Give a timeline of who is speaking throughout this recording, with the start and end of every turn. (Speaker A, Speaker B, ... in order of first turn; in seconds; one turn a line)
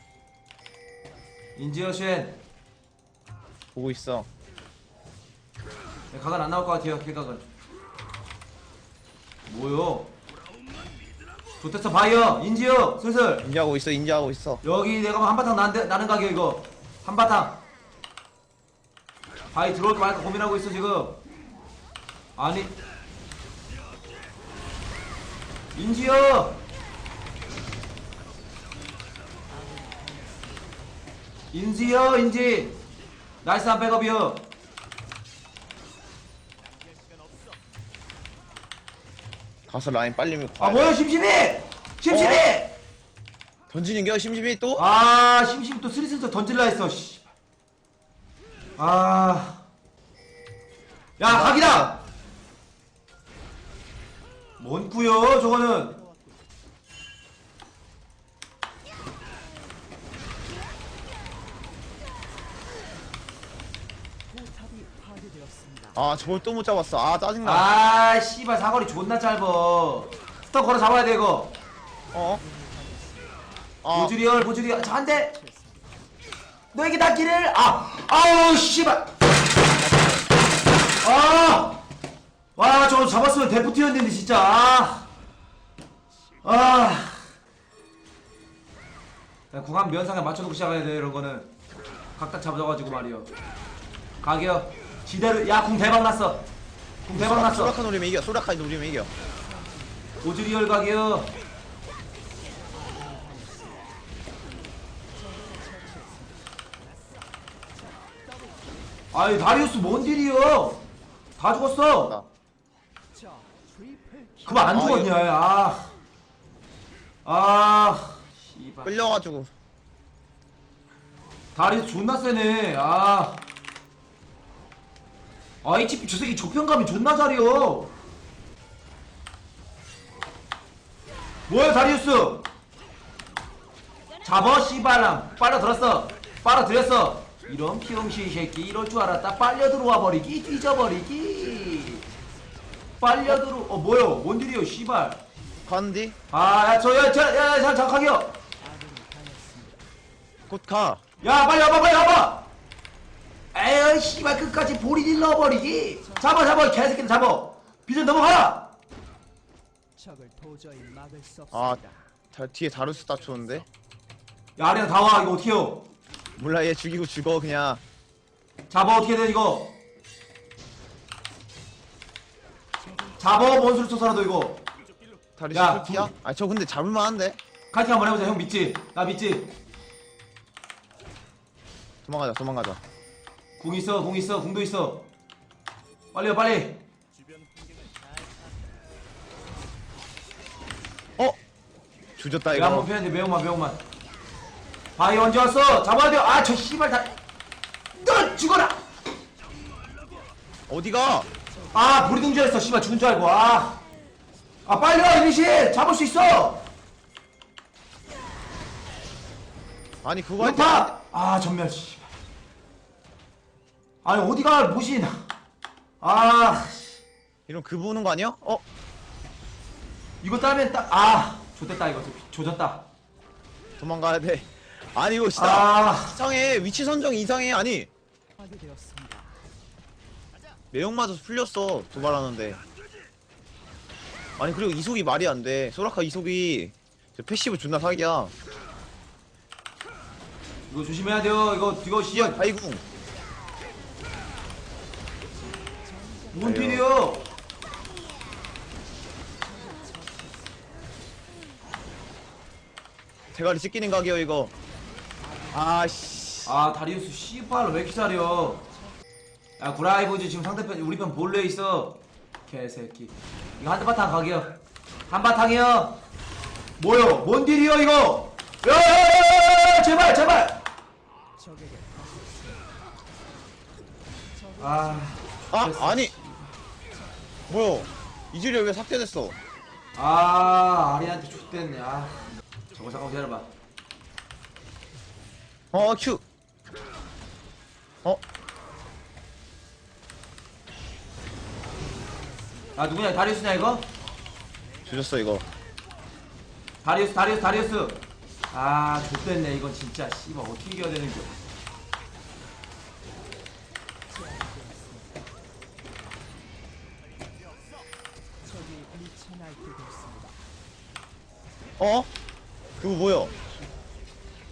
Speaker A: 1.6-2.4
Speaker B: 3.8-4.3
Speaker A: 6.1-7.5
Speaker A: 9.5-10.1
Speaker A: 11.6-13.5
Speaker B: 13.4-14.6
Speaker A: 14.6-17.6
Speaker A: 19.5-21.2
Speaker A: 22.4-22.8
Speaker A: 25.8-26.6
Speaker C: 29.5-30.7
Speaker A: 31.5-32.8
Speaker A: 33.4-34.5
Speaker B: 39.7-41.0
Speaker A: 40.6-42.8
Speaker B: 42.1-42.5
Speaker B: 43.7-44.9
Speaker A: 44.8-47.3
Speaker A: 48.8-49.6
Speaker A: 51.2-52.0
Speaker B: 51.2-51.9
Speaker A: 54.6-56.0
Speaker C: 64.3-66.0
Speaker B: 66.0-67.7
Speaker A: 67.4-71.5
Speaker B: 72.1-72.4
Speaker C: 72.4-73.4
Speaker B: 73.8-74.2
Speaker A: 73.9-75.3
Speaker C: 74.7-75.8
Speaker A: 76.7-79.1
Speaker B: 79.8-80.2
Speaker A: 81.0-81.8
Speaker A: 82.6-85.1
Speaker A: 86.4-87.2
Speaker A: 89.5-91.5
Speaker A: 92.2-93.3
Speaker A: 94.2-96.5
Speaker A: 97.0-97.8
Speaker B: 97.1-99.1
Speaker C: 99.4-100.1
Speaker A: 100.2-101.3
Speaker C: 102.7-103.8
Speaker C: 105.2-106.3
Speaker A: 109.1-110.8
Speaker A: 111.4-112.2
Speaker C: 113.1-114.7
Speaker A: 114.5-115.9
Speaker B: 114.7-115.1
Speaker A: 117.2-118.9
Speaker B: 118.8-119.5
Speaker A: 121.5-123.4
Speaker A: 125.6-127.9
Speaker A: 131.5-132.4
Speaker A: 134.2-142.1
Speaker A: 143.0-145.2
Speaker B: 145.7-146.2
Speaker A: 146.3-148.3
Speaker C: 148.6-149.8
Speaker B: 150.5-151.0
Speaker A: 151.2-152.5
Speaker A: 153.5-158.7
Speaker C: 160.0-161.9
Speaker B: 161.5-163.7
Speaker A: 164.6-165.9
Speaker B: 166.4-167.8
Speaker A: 168.7-169.8
Speaker A: 173.2-174.7
Speaker B: 175.4-177.4
Speaker A: 175.5-176.1
Speaker A: 177.7-179.5
Speaker B: 182.1-182.8
Speaker A: 183.6-185.1
Speaker A: 186.1-186.8
Speaker B: 192.2-192.9
Speaker A: 192.5-193.8
Speaker A: 195.0-197.2
Speaker A: 198.0-198.8
Speaker B: 200.7-201.3
Speaker A: 201.7-203.8
Speaker A: 204.7-206.6
Speaker B: 210.0-210.9
Speaker A: 210.4-212.1
Speaker A: 214.0-215.2
Speaker A: 216.0-217.0
Speaker B: 217.5-218.6
Speaker A: 220.2-222.8
Speaker B: 223.8-227.9
Speaker A: 225.3-226.2
Speaker C: 228.4-229.3
Speaker B: 230.7-232.6
Speaker B: 234.4-238.3
Speaker A: 240.7-242.4
Speaker B: 242.1-242.8
Speaker C: 245.8-246.4
Speaker A: 246.3-247.2
Speaker B: 246.4-246.9
Speaker C: 249.4-250.6
Speaker B: 253.3-254.5
Speaker C: 255.4-255.8
Speaker B: 255.5-256.5
Speaker A: 256.4-258.7
Speaker A: 259.6-264.6
Speaker A: 265.1-266.0
Speaker A: 266.8-270.6
Speaker C: 271.4-272.6
Speaker C: 274.4-275.2
Speaker A: 274.6-276.5
Speaker B: 275.5-276.1
Speaker B: 277.5-279.4
Speaker A: 280.0-283.5
Speaker B: 285.7-286.2
Speaker C: 291.9-292.7
Speaker A: 292.8-293.9
Speaker B: 294.9-295.5
Speaker A: 296.8-301.4
Speaker C: 304.1-305.1
Speaker C: 308.4-310.4
Speaker B: 311.8-312.1
Speaker B: 312.8-313.3